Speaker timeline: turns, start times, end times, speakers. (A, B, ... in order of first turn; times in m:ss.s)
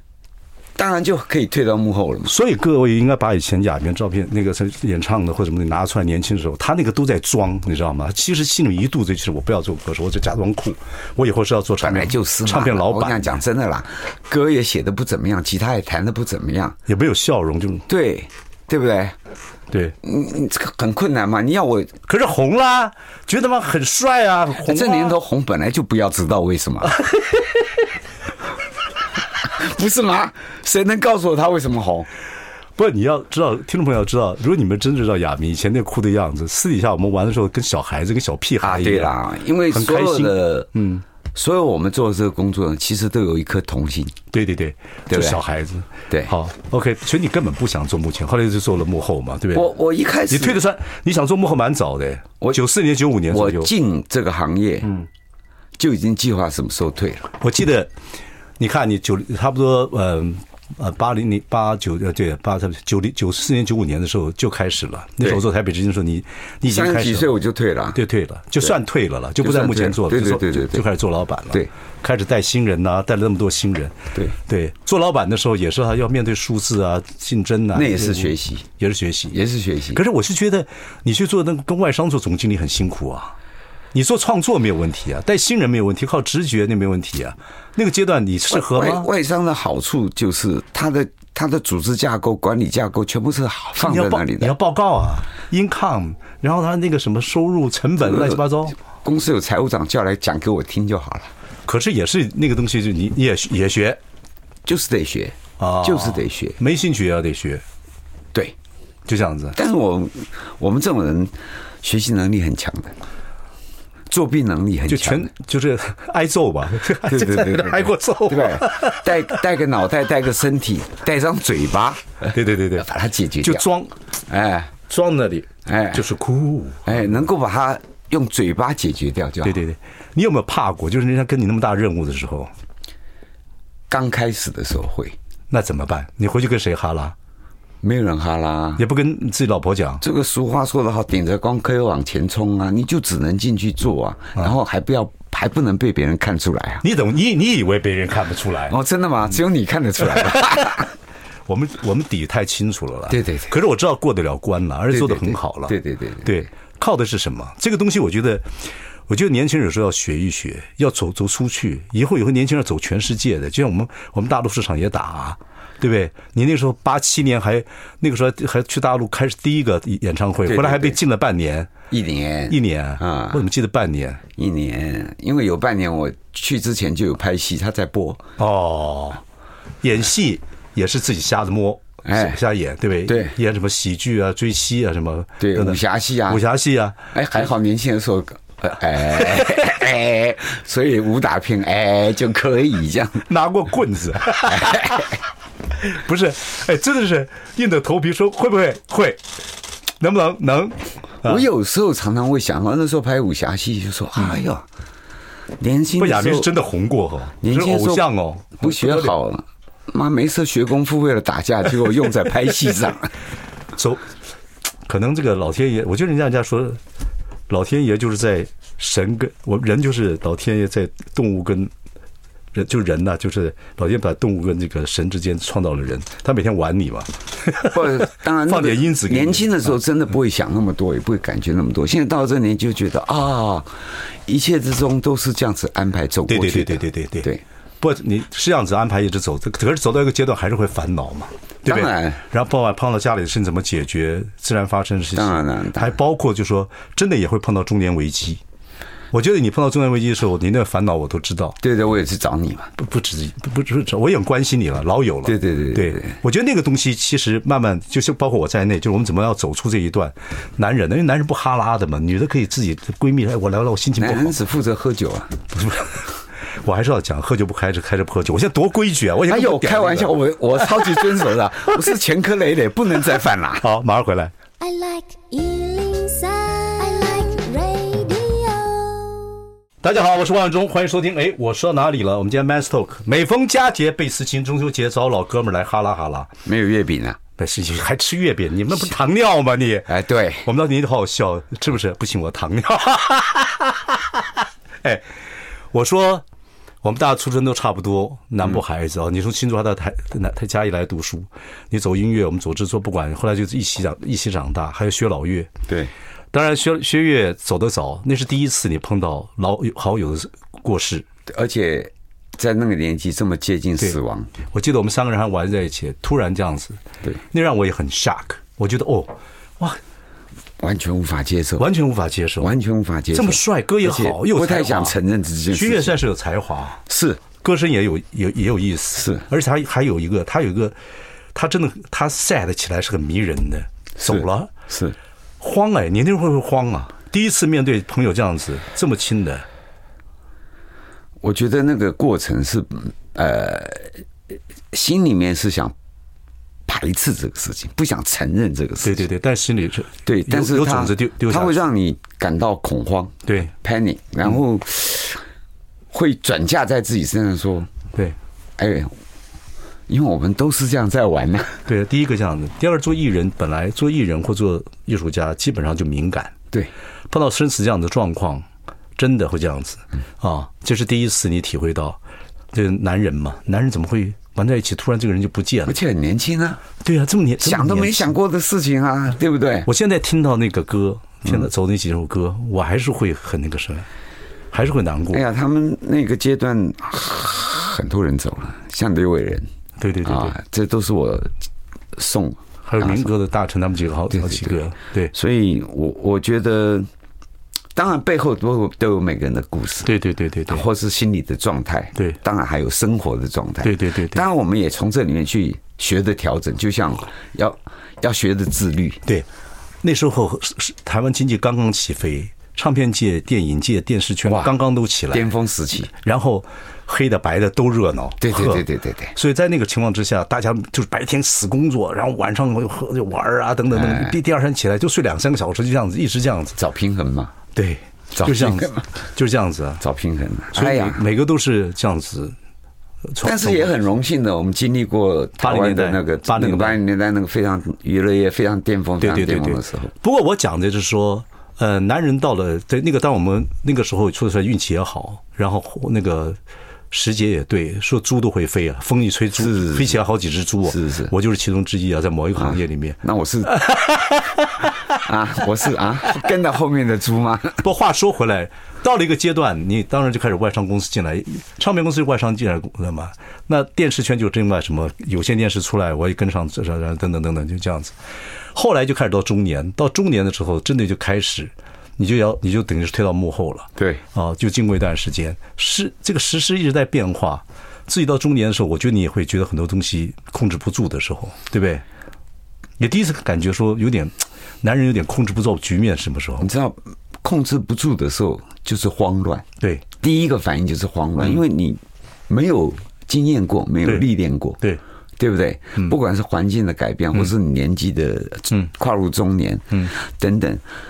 0:00.8-0:02.3 A
0:02.3-0:13.4 B
0:11.8-0:16.8 A
0:16.9-0:17.9 B
0:17.9-0:19.2 A
0:19.7-0:20.0 B
0:20.0-0:22.0 A
0:22.1-0:25.2 B
0:24.6-0:27.0 A
0:27.0-0:27.5 B
0:29.4-0:32.1 A
0:32.8-0:39.2 B
0:38.6-0:40.7 A
0:39.7-0:41.0 B
0:41.4-0:44.2 A
0:44.3-0:49.7 B
0:45.1-0:45.4 A
0:49.5-0:50.6 A
0:50.3-0:53.7 B
0:53.3-0:54.9 A
0:55.8-0:57.3 A
0:57.4-0:57.9 B
0:58.6-1:07.3 B
1:06.7-1:08.0 A
1:08.0-1:19.4 B
1:09.4-1:10.9 A
1:17.7-1:18.7 A
1:19.3-1:20.0 A
1:19.9-1:23.4 B
1:23.9-1:29.1 B
1:28.5-1:34.5 A
1:33.8-1:38.8 B
1:38.1-1:41.3 A
1:41.7-1:44.0 B
1:44.7-1:46.6 A
1:45.6-1:47.6 B
1:49.1-1:49.6 B
1:49.5-1:53.0 A
1:54.1-1:55.3 A
1:54.9-1:59.4 B
1:57.0-2:03.7 A
2:02.3-2:02.9 B
2:03.4-2:04.0 B
2:04.3-2:04.7 A
2:04.9-2:07.2 B
2:05.7-2:06.0 A
2:06.8-2:09.6 A
2:09.4-2:12.5 B
2:13.9-2:15.2 A
2:15.5-2:17.2 B
2:17.8-2:18.8 A
2:18.8-2:20.0 B
2:20.0-2:26.8 A
2:26.8-2:28.8 B
2:28.7-2:30.9 A
2:30.1-2:30.6 B
2:31.5-2:51.7 B
2:33.1-2:33.6 A
2:34.9-2:36.4 A
2:50.5-2:51.0 A
2:51.9-2:53.4 A
2:52.5-2:54.2 B
2:54.4-2:58.2 A
2:58.4-2:59.2 B
2:59.8-3:07.0 B
3:02.0-3:02.4 A
3:03.1-3:03.4 A
3:05.4-3:06.4 A
3:07.1-3:13.3 A
3:13.3-3:15.1 B
3:14.5-3:15.2 A
3:15.8-3:19.2 B
3:20.0-3:21.4 B
3:21.2-3:24.7 A
3:25.6-3:26.5 A
3:26.0-3:29.1 B
3:27.4-3:28.1 A
3:28.6-3:33.1 A
3:33.8-3:34.1 B
3:34.9-3:36.8 B
3:37.5-3:41.7 B
3:42.5-3:49.7 B
3:47.7-3:57.4 A
3:56.3-3:57.3 B
3:57.8-4:08.4 B
4:01.6-4:02.2 A
4:05.2-4:06.0 A
4:09.1-4:11.6 B
4:11.6-4:12.7 A
4:12.8-4:24.4 B
4:15.3-4:16.2 A
4:24.0-4:25.4 A
4:25.5-4:26.1 B
4:26.6-4:30.1 B
4:29.3-4:33.6 A
4:33.6-4:34.3 B
4:34.6-4:39.4 C
4:39.8-4:46.3 B
4:46.5-4:47.2 A
4:47.4-4:49.9 B
4:49.9-4:50.5 A
4:50.4-4:55.1 B
4:55.7-4:56.2 B
4:56.8-5:05.5 B
5:06.3-5:11.0 B
5:11.3-5:14.3 A
5:14.5-5:16.8 B
5:17.3-5:19.8 B
5:20.6-5:21.7 A
5:21.6-5:22.5 B
5:22.4-5:26.0 A
5:23.1-5:25.0 B
5:25.5-5:26.8 B
5:26.9-5:27.2 A
5:27.4-5:30.8 B
5:29.0-5:29.2 A
5:31.4-5:34.5 B
5:34.0-5:35.0 A
5:35.4-5:39.4 B
5:41.2-5:44.0 A
5:44.7-5:45.8 A
5:46.7-5:49.0 A
5:48.8-5:51.6 B
5:50.0-5:55.2 A
5:53.3-5:53.5 B
5:55.9-5:57.7 A
5:58.6-5:58.9 A
5:59.9-6:01.6 A
6:01.7-6:06.3 B
6:07.1-6:08.5 B
6:09.0-6:12.0 B
6:12.5-6:15.8 B
6:15.7-6:16.6 A
6:16.8-6:18.1 B
6:17.4-6:19.7 A
6:19.7-6:23.9 B
6:24.5-6:25.2 B
6:25.1-6:29.5 A
6:29.8-6:30.4 B
6:30.0-6:31.3 A
6:31.9-6:33.1 A
6:32.6-6:35.1 B
6:34.1-6:34.6 A
6:35.1-6:36.9 A
6:37.8-6:39.9 A
6:39.8-6:40.6 B
6:40.5-6:49.0 A
6:43.6-6:44.2 B
6:49.8-6:55.3 B
6:54.3-6:54.6 A
6:55.1-6:55.9 A
6:56.0-6:58.6 B
6:58.2-6:59.2 A
6:59.2-7:06.6 B
7:03.7-7:04.2 A
7:06.6-7:07.4 A
7:07.6-7:09.8 B
7:08.1-7:08.9 A
7:09.8-7:11.0 A
7:10.5-7:12.4 B
7:13.1-7:13.7 B
7:13.2-7:19.9 A
7:15.4-7:16.8 B
7:19.0-7:26.4 B
7:26.9-7:34.7 B
7:29.4-7:30.0 A
7:30.7-7:31.1 A
7:32.4-7:33.5 A
7:35.0-7:37.6 A
7:37.6-7:47.9 B
7:48.5-8:01.8 B
7:53.8-7:54.0 A
8:02.8-8:06.5 B
8:06.4-8:09.5 A
8:10.0-8:14.6 A
8:15.2-8:20.6 A